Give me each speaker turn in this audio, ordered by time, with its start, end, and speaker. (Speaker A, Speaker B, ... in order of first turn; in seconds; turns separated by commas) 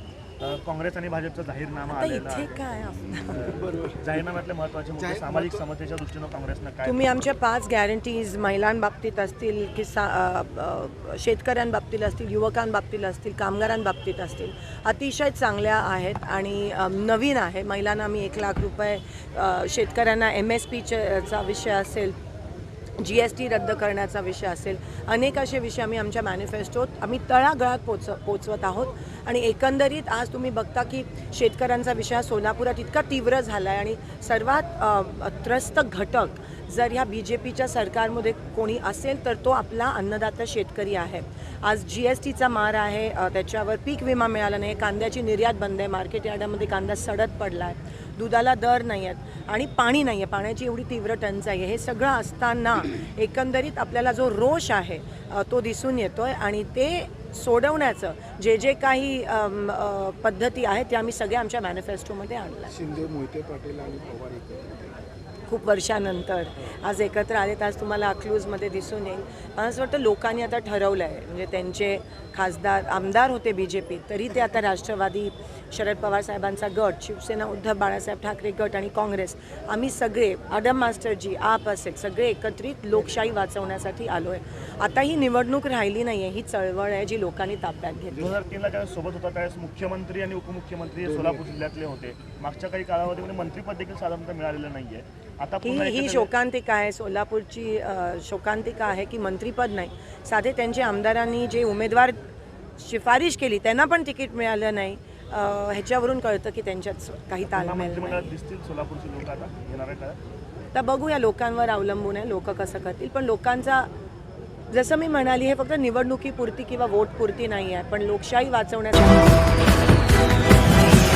Speaker A: 0.4-2.6, Speaker B: 1.9-3.4, Speaker A: 3.3-7.1, Speaker C: 3.5-4.2, Speaker C: 5.0-5.6, Speaker B: 6.9-22.1, Speaker B: 23.0-62.7, Speaker C: 62.7-64.9, Speaker B: 65.5-88.2, Speaker A: 88.2-96.3, Speaker C: 91.0-91.5, Speaker B: 95.6-102.2, Speaker B: 102.8-108.3, Speaker A: 107.5-110.2, Speaker B: 110.7-113.9, Speaker B: 114.7-119.3